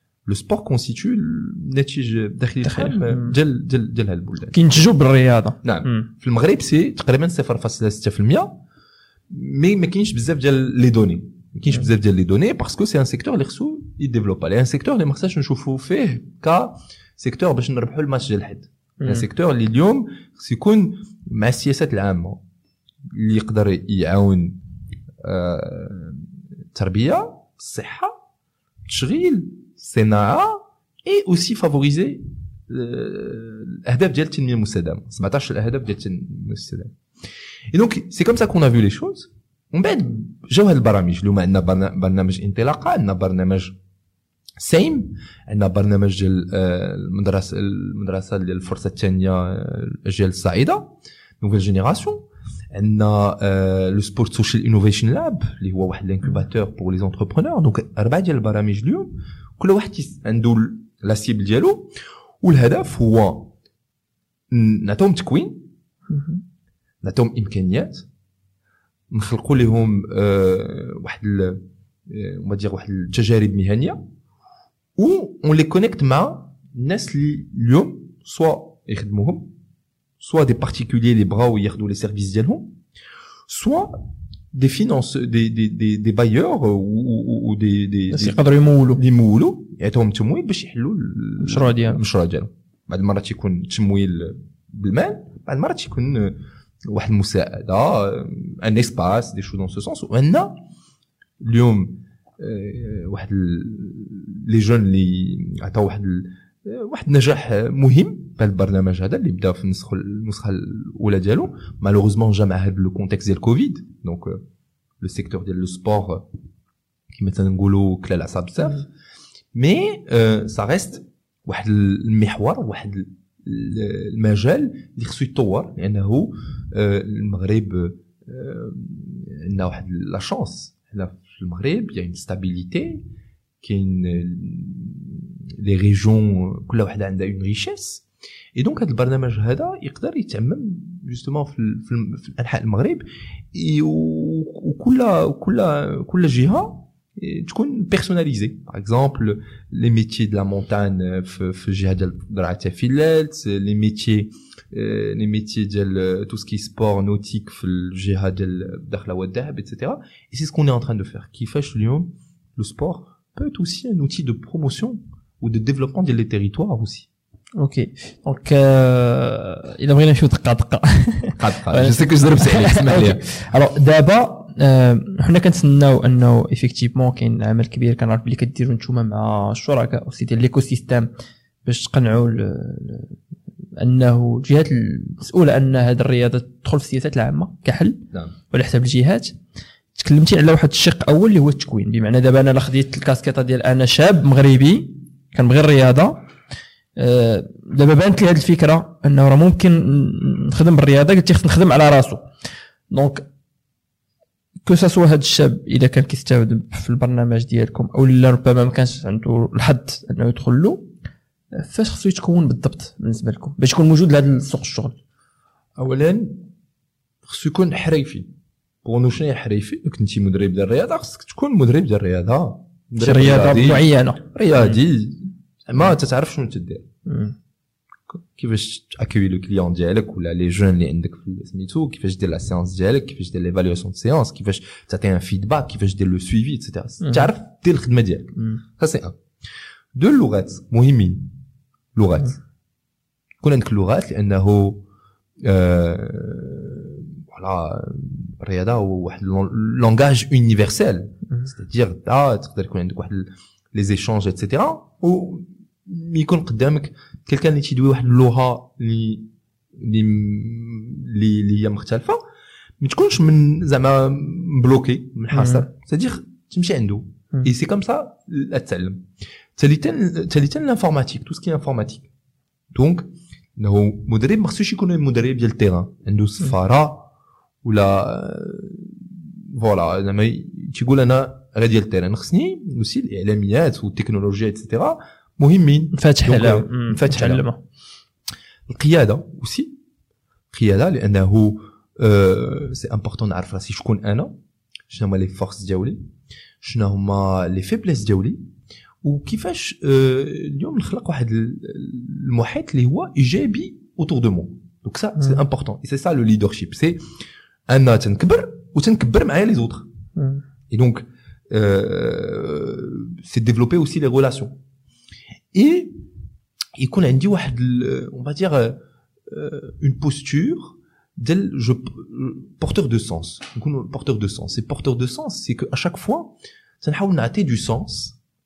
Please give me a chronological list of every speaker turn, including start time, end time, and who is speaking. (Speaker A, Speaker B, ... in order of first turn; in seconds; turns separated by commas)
Speaker A: 0.2-4.6, Speaker B: 2.6-3.3, Speaker B: 4.5-6.0, Speaker A: 5.6-8.5, Speaker A: 9.3-22.4, Speaker A: 23.1-24.6, Speaker A: 25.2-28.1, Speaker A: 28.9-36.9, Speaker A: 37.7-43.8, Speaker A: 44.6-50.9, Speaker A: 51.4-61.9, Speaker A: 62.4-63.5, Speaker A: 64.5-65.6, Speaker B: 66.1-66.4, Speaker A: 67.0-68.0, Speaker A: 69.1-74.0, Speaker A: 75.0-79.5, Speaker A: 80.2-82.7, Speaker A: 83.5-88.4, Speaker B: 88.1-89.0, Speaker A: 88.9-100.5, Speaker B: 91.4-92.0, Speaker A: 101.4-114.4, Speaker A: 115.0-116.2, Speaker A: 117.1-118.9, Speaker A: 119.5-133.0, Speaker A: 133.6-138.0, Speaker A: 138.6-167.1, Speaker B: 167.6-181.1, Speaker A: 171.4-173.2, Speaker B: 181.6-183.2, Speaker B: 183.8-189.3, Speaker B: 189.9-196.2, Speaker B: 196.9-202.2, Speaker B: 202.9-203.2, Speaker B: 204.6-210.9, Speaker B: 211.5-215.0, Speaker A: 215.8-216.4, Speaker A: 217.2-218.3, Speaker A: 218.8-226.8, Speaker B: 223.0-224.8, Speaker B: 227.1-227.3, Speaker A: 228.1-239.2, Speaker B: 237.0-237.3, Speaker A: 239.9-241.2, Speaker A: 241.9-242.4, Speaker A: 243.4-244.8, Speaker A: 245.4-259.2, Speaker A: 259.8-262.2, Speaker A: 262.8-269.0, Speaker B: 265.3-265.6, Speaker A: 269.6-272.1, Speaker A: 272.7-277.1, Speaker A: 277.6-287.4, Speaker B: 285.9-287.6, Speaker A: 288.7-289.7, Speaker A: 290.5-294.3, Speaker A: 294.9-296.0, Speaker A: 296.6-298.4, Speaker A: 299.0-307.0, Speaker A: 307.7-309.9, Speaker B: 310.1-310.4, Speaker A: 310.7-314.5, Speaker A: 315.5-316.0, Speaker A: 316.8-328.2